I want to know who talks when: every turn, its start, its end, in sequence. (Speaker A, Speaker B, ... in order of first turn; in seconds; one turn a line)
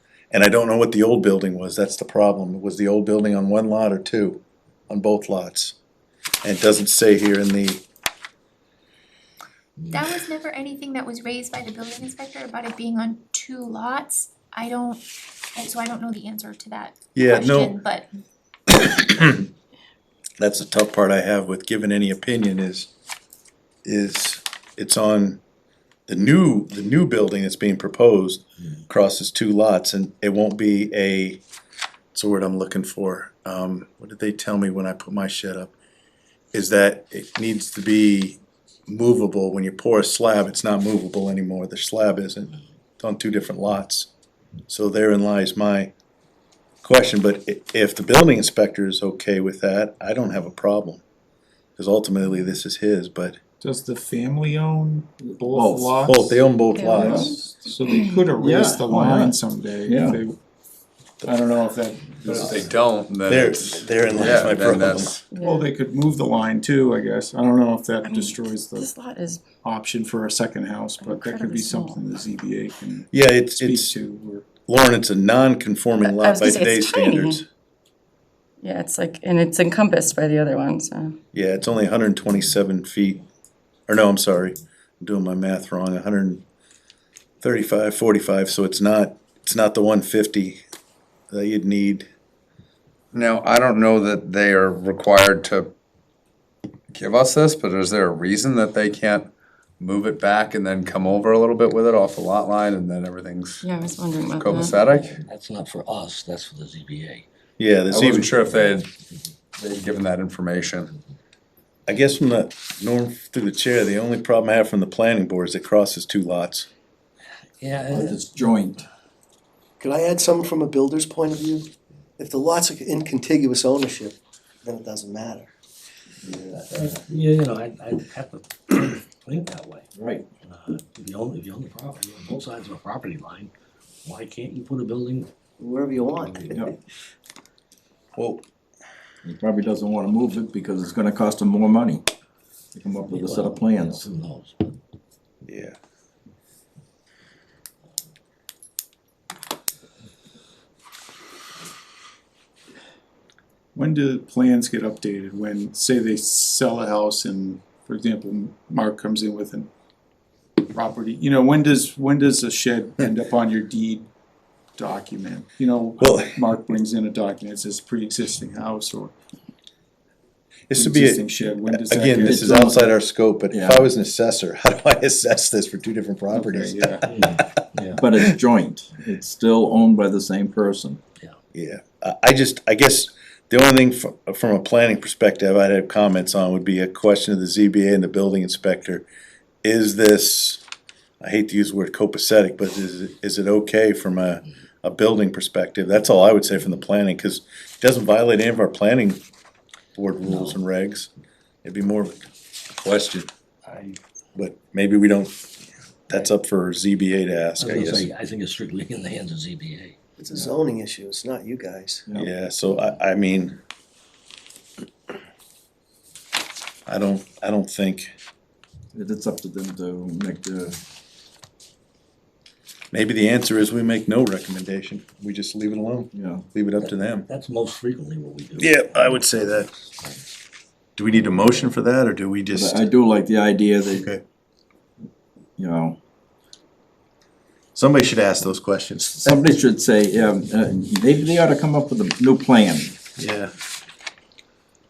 Speaker A: 0.3-5.8
Speaker A: 6.4-7.8
Speaker B: 9.9-15.0
Speaker B: 15.6-18.1
Speaker A: 17.1-17.8
Speaker A: 18.7-19.4
Speaker A: 20.4-22.9
Speaker A: 23.8-25.4
Speaker A: 26.1-31.4
Speaker A: 32.1-35.7
Speaker A: 36.5-44.1
Speaker A: 44.7-45.9
Speaker A: 46.8-51.0
Speaker A: 51.8-53.4
Speaker C: 53.6-60.4
Speaker D: 55.4-56.0
Speaker A: 56.0-57.4
Speaker E: 56.7-58.3
Speaker D: 56.9-57.3
Speaker D: 58.4-60.2
Speaker C: 61.2-62.7
Speaker F: 62.3-65.3
Speaker A: 63.2-65.1
Speaker E: 65.3-65.7
Speaker C: 65.3-69.0
Speaker E: 68.0-69.4
Speaker C: 69.6-74.5
Speaker E: 71.0-72.0
Speaker A: 73.1-73.9
Speaker A: 74.7-77.4
Speaker E: 76.0-77.4
Speaker E: 78.6-81.2
Speaker A: 81.3-83.2
Speaker A: 83.9-86.4
Speaker A: 87.4-90.6
Speaker A: 91.3-92.1
Speaker F: 93.1-95.7
Speaker F: 96.9-103.7
Speaker E: 103.6-105.0
Speaker F: 104.2-105.2
Speaker G: 105.0-107.2
Speaker A: 107.6-108.3
Speaker F: 107.9-108.9
Speaker F: 109.6-110.9
Speaker A: 111.9-116.7
Speaker G: 117.6-118.2
Speaker D: 117.9-118.8
Speaker H: 119.8-125.5
Speaker D: 126.2-126.6
Speaker G: 126.6-129.9
Speaker D: 129.9-130.3
Speaker G: 130.4-133.5
Speaker G: 134.0-135.3
Speaker H: 135.6-136.7
Speaker A: 138.2-138.4
Speaker D: 139.2-142.0
Speaker D: 142.7-144.0
Speaker G: 143.1-144.8
Speaker A: 145.4-145.8
Speaker C: 153.7-159.7
Speaker C: 160.7-164.1
Speaker C: 164.8-169.1
Speaker A: 166.0-166.4
Speaker A: 170.7-176.9
Speaker C: 170.7-172.8
Speaker D: 172.3-172.8
Speaker D: 173.5-173.9
Speaker C: 176.3-177.1
Speaker G: 177.1-178.0
Speaker D: 178.0-181.0
Speaker A: 181.5-189.1
Speaker A: 189.6-190.6
Speaker A: 191.2-199.2
Speaker A: 199.9-201.1
Speaker G: 200.2-200.6
Speaker A: 201.6-203.3
Speaker G: 203.7-204.0
Speaker A: 204.3-205.3
Speaker A: 206.1-208.1
Speaker G: 207.6-209.9
Speaker H: 210.2-212.1
Speaker A: 212.1-213.6
Speaker A: 216.9-218.1
Speaker D: 218.9-220.8
Speaker A: 222.9-227.3
Speaker D: 226.1-226.5
Speaker G: 226.8-230.3
Speaker A: 228.6-229.7
Speaker A: 230.9-232.8
Speaker G: 231.1-231.7
Speaker D: 232.5-234.1
Speaker A: 233.9-234.2
Speaker D: 235.6-236.0
Speaker A: 237.7-239.4
Speaker D: 239.2-243.0
Speaker A: 243.2-243.5